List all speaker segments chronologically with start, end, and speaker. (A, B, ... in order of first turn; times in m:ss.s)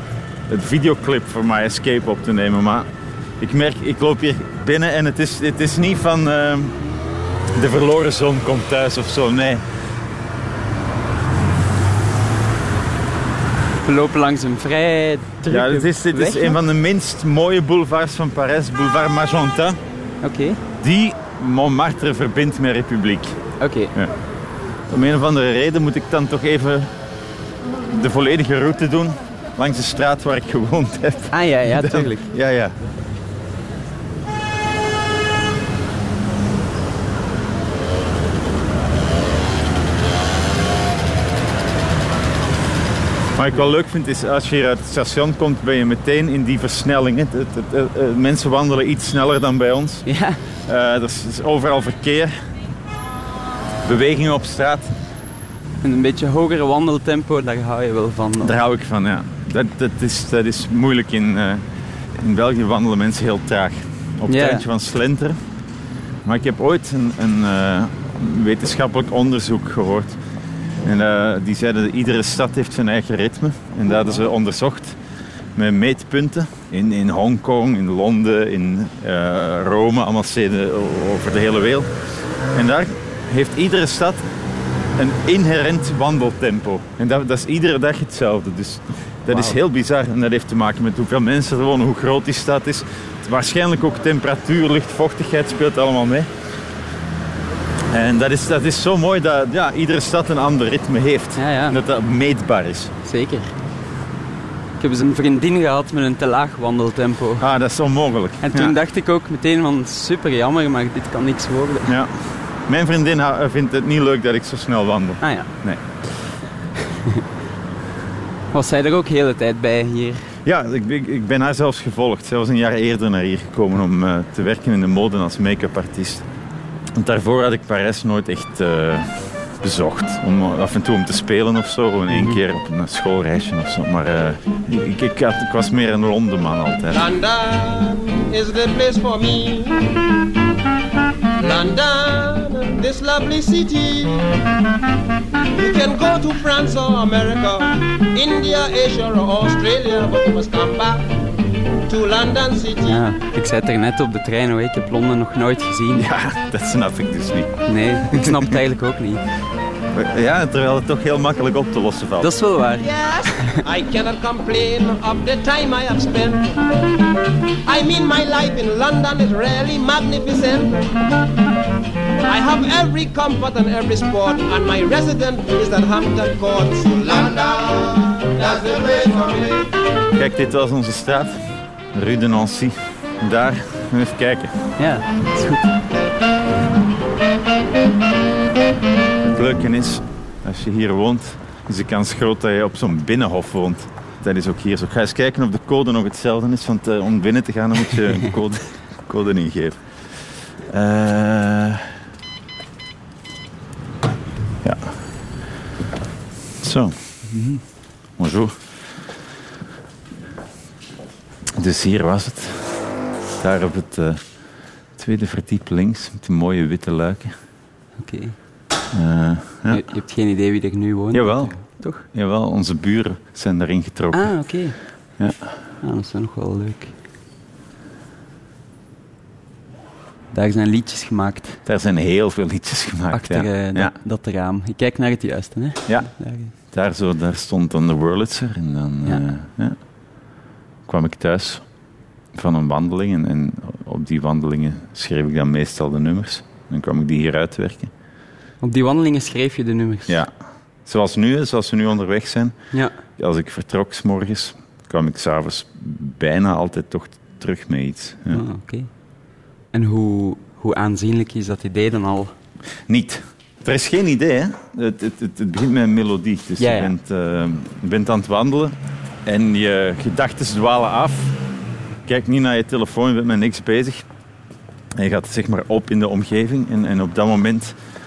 0:00.5-0:06.8 A
0:07.6-0:09.6 A
0:13.8-0:16.6 B
0:15.5-0:19.8 A
0:20.2-0:20.6 B
0:20.8-0:23.4 A
0:23.6-0:23.9 B
0:24.9-0:26.9 A
0:27.9-0:32.8 A
0:31.3-0:32.3 B
0:43.4-0:50.0 A
0:50.1-0:50.4 B
0:50.7-0:52.3 A
0:53.8-0:54.9 A
0:55.8-0:58.6 B
0:58.4-1:05.4 A
1:04.3-1:04.6 B
1:06.2-1:10.2 A
1:10.8-1:15.0 A
1:15.6-1:21.9 A
1:22.5-1:24.2 A
1:25.0-1:36.3 A
1:37.9-1:42.9 A
1:41.4-1:41.8 B
1:43.0-1:43.5 B
1:44.8-1:47.4 B
1:47.4-1:48.8 A
1:48.4-1:51.9 B
1:52.7-1:55.8 A
1:55.2-1:55.5 B
1:56.9-1:57.2 B
1:58.5-2:00.3 B
2:00.4-2:06.3 A
2:07.0-2:17.1 A
2:12.1-2:12.4 B
2:16.9-2:20.0 C
2:21.4-2:24.2 C
2:25.5-2:31.1 C
2:31.9-2:33.0 C
2:32.9-2:36.1 B
2:35.9-2:38.4 A
2:37.7-2:39.2 B
2:39.9-2:42.3 A
2:42.2-2:43.6 B
2:43.6-2:46.6 C
2:47.6-2:50.9 C
2:52.3-2:59.7 C
3:00.2-3:04.6 A
3:04.8-3:05.7 B
3:09.2-3:19.8 A
3:20.7-3:21.9 A
3:24.6-3:25.0 A
3:26.6-3:27.0 A
3:27.3-3:27.6 B
3:28.2-3:28.6 A
3:31.6-3:32.7 A
3:33.4-3:34.2 A
3:35.0-3:37.3 A
3:38.0-3:38.4 B
3:38.9-3:39.8 A
3:39.7-3:42.0 B
3:41.1-3:44.3 A
3:44.1-3:44.8 B
3:45.8-3:46.9 B
3:50.3-3:51.6 B
3:51.7-3:53.9 A
3:53.1-3:56.5 B
3:56.6-3:59.8 A
4:00.9-4:01.6 A
4:02.3-4:07.9 A
4:08.6-4:10.2 B
4:10.8-4:12.6 A
4:13.2-4:18.4 A
4:18.3-4:18.9 B
4:19.7-4:22.3 B
4:22.9-4:31.4 A
4:26.6-4:26.9 B
4:32.1-4:34.0 A
4:35.0-4:37.8 A